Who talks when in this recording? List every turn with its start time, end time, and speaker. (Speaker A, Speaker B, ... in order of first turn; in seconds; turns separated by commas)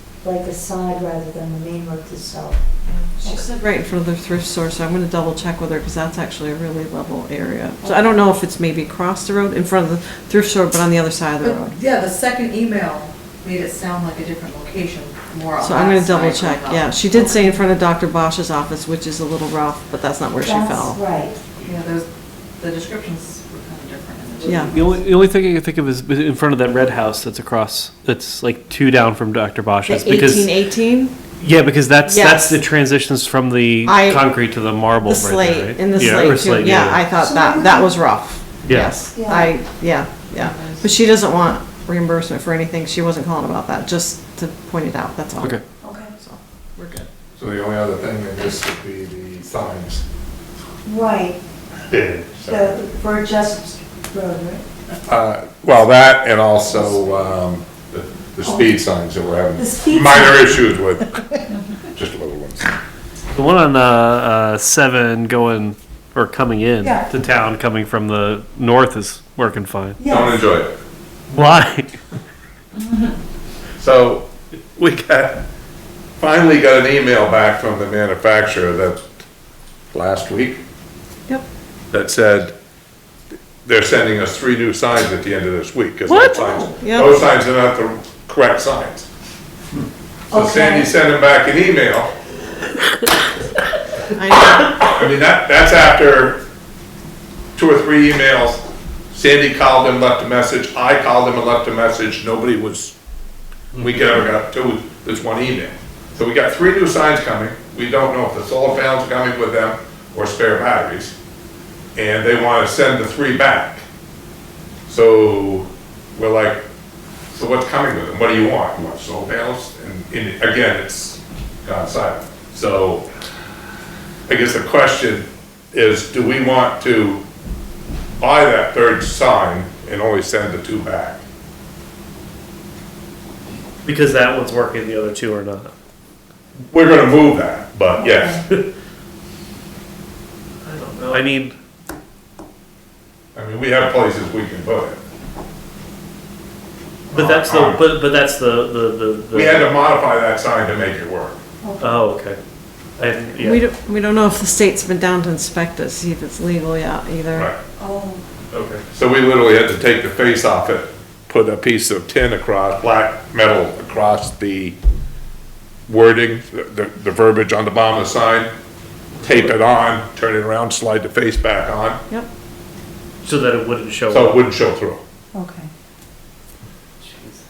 Speaker A: 0.2-2.7, Speaker B: 2.9-11.8, Speaker A: 3.2-3.5, Speaker A: 7.8-8.2, Speaker C: 11.4-17.4, Speaker B: 15.6-21.0, Speaker A: 20.4-21.4, Speaker C: 21.6-22.1, Speaker C: 22.6-24.9, Speaker B: 24.4-24.7, Speaker D: 24.6-30.6, Speaker B: 29.9-31.1, Speaker D: 31.4-37.0, Speaker B: 32.0-32.6, Speaker B: 33.8-34.2, Speaker B: 35.0-47.1, Speaker A: 35.9-36.4, Speaker A: 37.1-38.0, Speaker D: 38.6-38.9, Speaker A: 39.1-39.5, Speaker A: 45.8-46.1, Speaker E: 47.4-50.0, Speaker A: 50.8-51.4, Speaker E: 51.9-52.8, Speaker A: 52.5-55.0, Speaker E: 55.0-62.7, Speaker A: 59.5-60.6, Speaker D: 63.3-70.0, Speaker A: 66.8-67.1, Speaker A: 70.0-70.4, Speaker E: 70.0-70.8, Speaker D: 71.3-72.0, Speaker E: 73.8-75.4, Speaker E: 76.2-79.1, Speaker E: 79.9-80.6, Speaker E: 81.9-82.5, Speaker E: 83.6-89.1, Speaker B: 86.0-87.2, Speaker A: 90.3-90.9, Speaker E: 90.3-92.1, Speaker B: 94.2-94.7, Speaker E: 94.5-96.4, Speaker E: 97.5-103.0, Speaker E: 103.8-111.1, Speaker E: 111.9-113.8, Speaker E: 114.9-116.6, Speaker E: 117.3-123.1, Speaker E: 124.3-127.2, Speaker E: 128.2-131.2, Speaker D: 133.8-135.7, Speaker E: 136.7-138.4, Speaker A: 138.0-138.4, Speaker D: 140.6-141.6, Speaker E: 143.3-145.0, Speaker E: 147.1-147.8, Speaker D: 147.1-149.7, Speaker E: 149.3-151.4, Speaker A: 151.6-151.9, Speaker D: 151.8-152.4, Speaker D: 153.0-153.6, Speaker B: 153.4-157.5, Speaker A: 157.8-158.2, Speaker D: 158.5-158.8, Speaker E: 158.9-164.8, Speaker E: 165.9-168.5, Speaker E: 169.2-172.0, Speaker D: 173.2-174.4, Speaker E: 174.1-175.0, Speaker A: 175.3-175.7